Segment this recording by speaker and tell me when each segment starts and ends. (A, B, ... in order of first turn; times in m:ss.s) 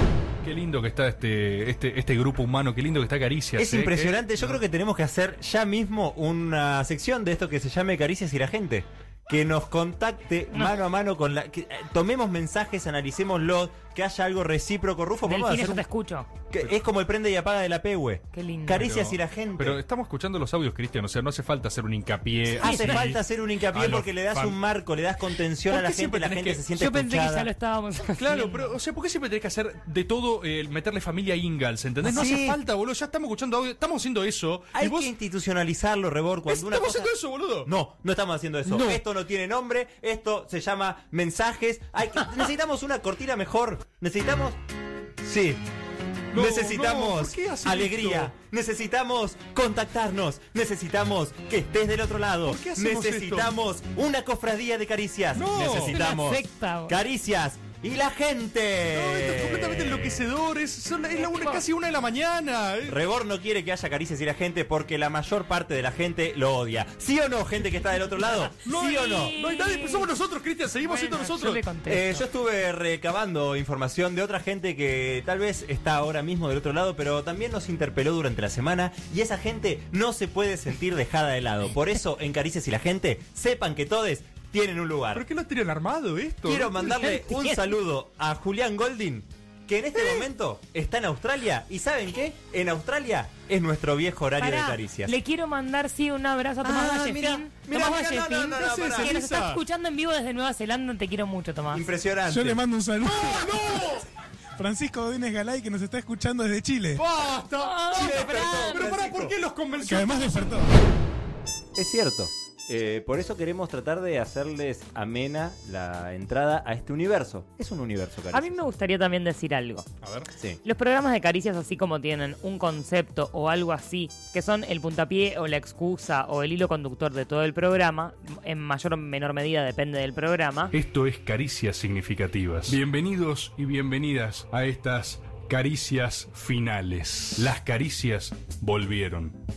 0:00.4-0:04.6 A
0:03.6-0:15.8 B
0:15.3-0:16.3 C
0:16.5-0:19.8 B
0:18.3-0:18.9 C
0:18.7-0:23.2 A
0:22.6-0:27.5 B
0:22.6-0:23.2 C
0:23.7-0:24.6 A
0:25.7-0:26.6 A
0:26.8-0:28.8 C
0:28.2-0:35.1 A
0:32.0-0:32.6 B
0:34.7-0:44.6 B
0:36.5-0:37.7 A
0:38.7-0:39.0 A
0:45.2-0:45.6 B
0:46.3-0:48.3 A
0:46.3-1:00.3 B
0:52.5-0:53.5 A
0:55.3-0:56.0 A
0:55.9-0:57.0 C
0:58.9-1:03.0 A
1:01.1-1:01.7 C
1:02.9-1:09.3 B
1:08.6-1:10.1 C
1:08.6-1:11.6 A
1:10.8-1:12.3 C
1:11.9-1:25.3 B
1:25.1-1:26.7 A
1:26.4-1:35.2 B
1:26.8-1:27.7 C
1:34.4-1:41.9 C
1:36.6-1:39.2 B
1:38.6-1:39.6 A
1:41.7-1:42.6 B
1:42.3-1:44.1 D
1:43.1-1:43.9 A
1:44.6-1:47.0 D
1:46.9-1:50.6 A
1:47.6-1:49.0 C
1:47.9-1:49.4 B
1:49.8-1:50.7 D
1:51.8-1:58.6 B
1:58.3-1:59.9 C
2:00.0-2:00.3 A
2:00.6-2:10.7 C
2:10.7-2:19.4 E